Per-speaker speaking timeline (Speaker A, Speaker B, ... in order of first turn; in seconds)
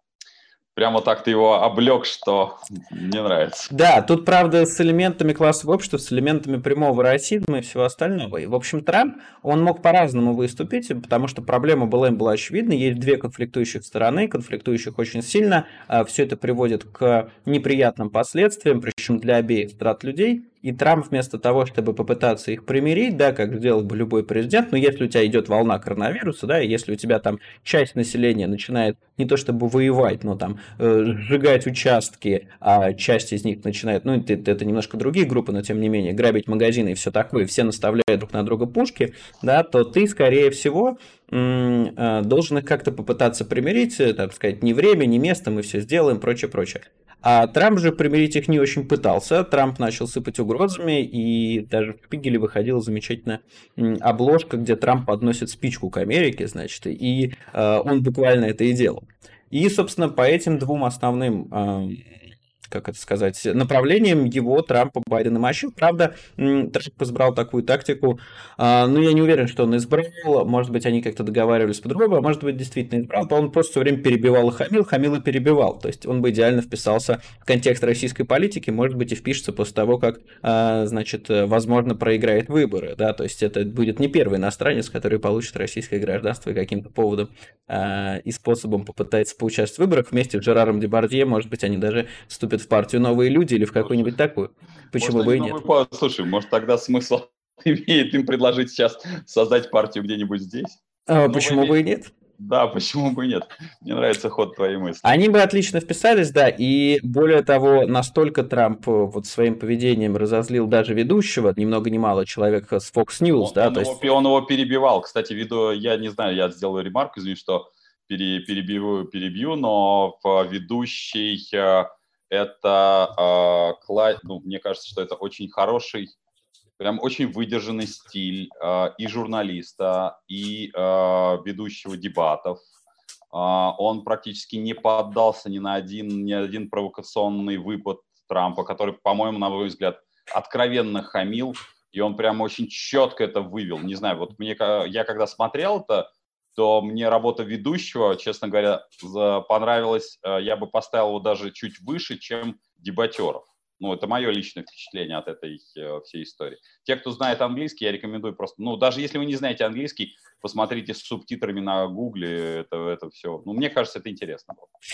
Speaker A: 0.8-3.7, 93.8-94.1, 94.9-101.8, 102.4-105.2, 113.4-126.1, 126.8-132.6, 133.3-164.7
Speaker B: 3.7-62.2, 62.7-95.6, 101.1-102.1, 105.0-114.0